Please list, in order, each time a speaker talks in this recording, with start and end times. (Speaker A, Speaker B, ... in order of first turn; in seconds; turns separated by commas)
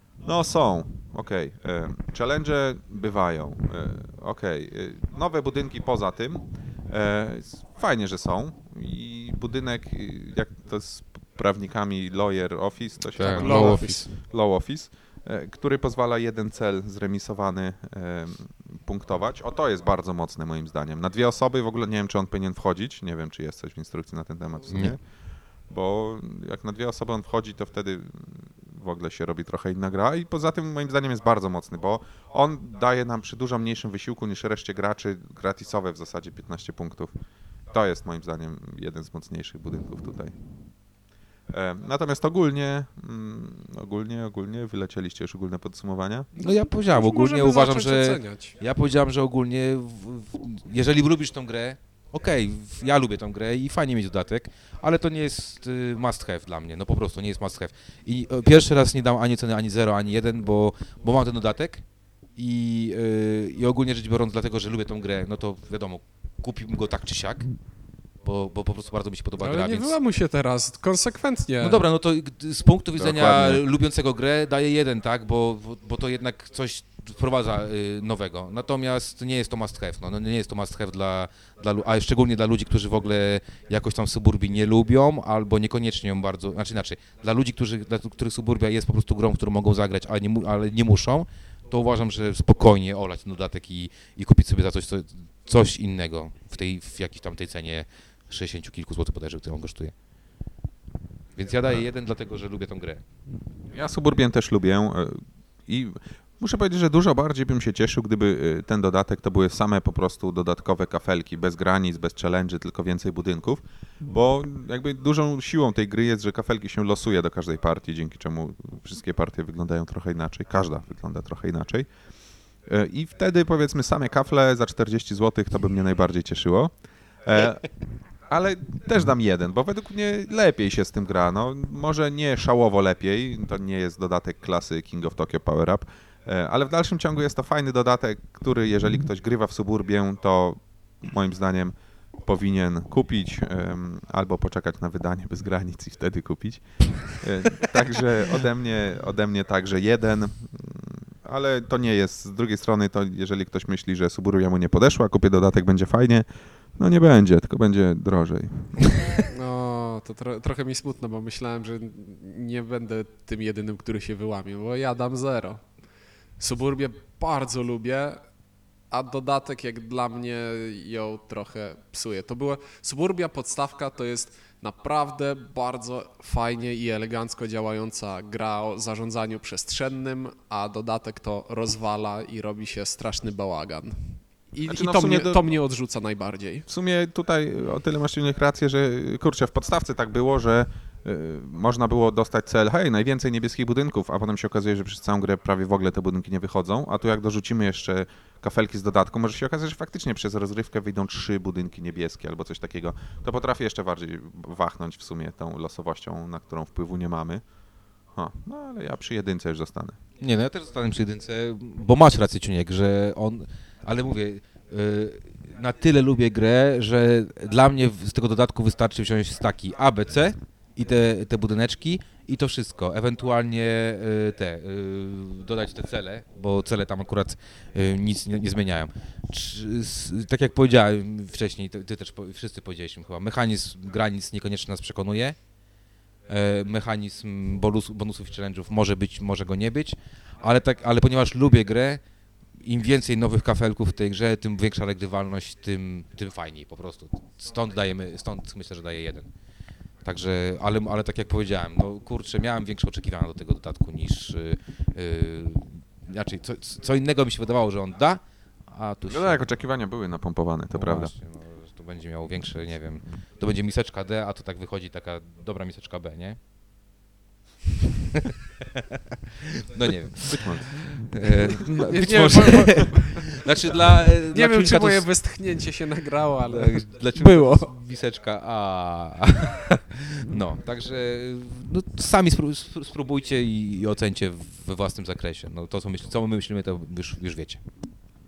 Speaker A: 0.2-25.0, Speaker B: 13.2-14.1, Speaker C: 13.2-14.1, Speaker B: 24.7-25.0, Speaker A: 25.7-37.1, Speaker A: 37.7-40.3, Speaker A: 41.5-46.3, Speaker B: 46.4-61.8, Speaker C: 46.4-48.6, Speaker B: 62.4-67.5, Speaker B: 68.2-70.0, Speaker C: 69.4-71.8, Speaker B: 71.6-99.9, Speaker A: 73.0-73.6, Speaker B: 101.4-103.0, Speaker A: 103.7-121.9, Speaker A: 122.7-126.7, Speaker A: 127.2-127.7, Speaker A: 128.3-158.9, Speaker C: 159.3-165.6, Speaker C: 166.4-168.2, Speaker C: 168.9-186.7, Speaker A: 184.7-185.5, Speaker A: 186.7-207.4, Speaker A: 208.2-210.0, Speaker B: 210.2-235.4, Speaker B: 236.3-242.0, Speaker B: 242.6-249.3, Speaker B: 250.0-259.5, Speaker A: 259.1-261.1, Speaker B: 260.7-266.4, Speaker B: 269.7-275.1, Speaker C: 271.8-273.3, Speaker C: 274.3-277.7, Speaker B: 276.5-287.6